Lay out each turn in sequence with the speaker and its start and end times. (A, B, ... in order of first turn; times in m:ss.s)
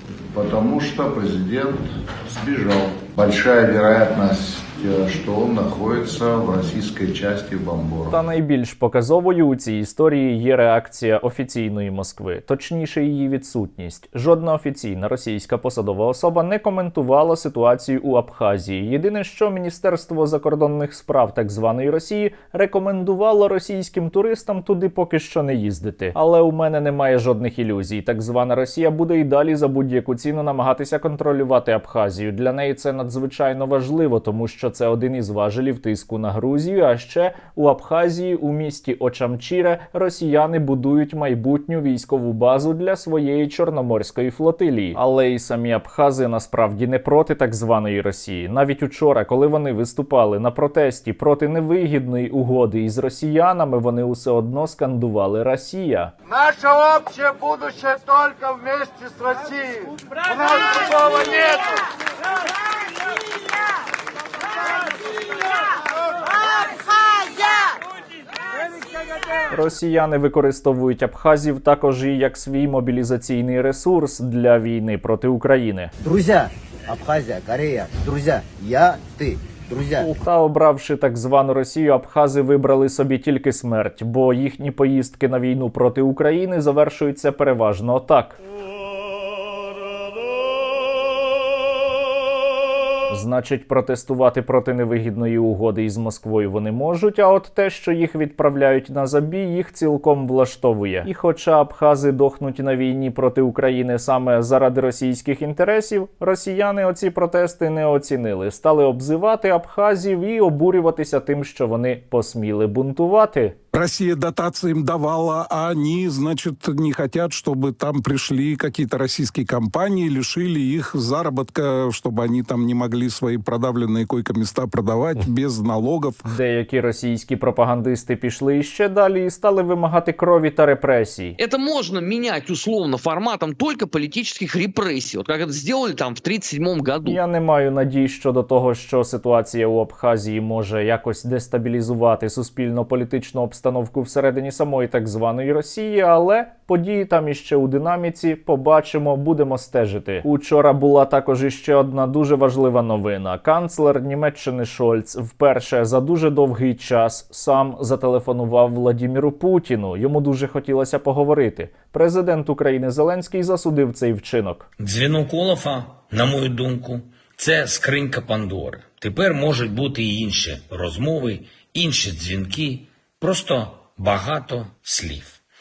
0:00.3-0:08.2 A
0:08.1-0:56.1 B
0:56.8-0:59.3 C
1:00.6-1:01.6 C
1:09.5-1:15.9 B
1:16.0-1:20.1 D
1:20.0-1:28.4 B
1:33.1-1:53.6 B
1:53.7-2:06.1 E
2:06.3-2:11.4 B
2:11.4-2:17.2 F
2:17.0-2:44.7 B
2:44.8-2:55.4 G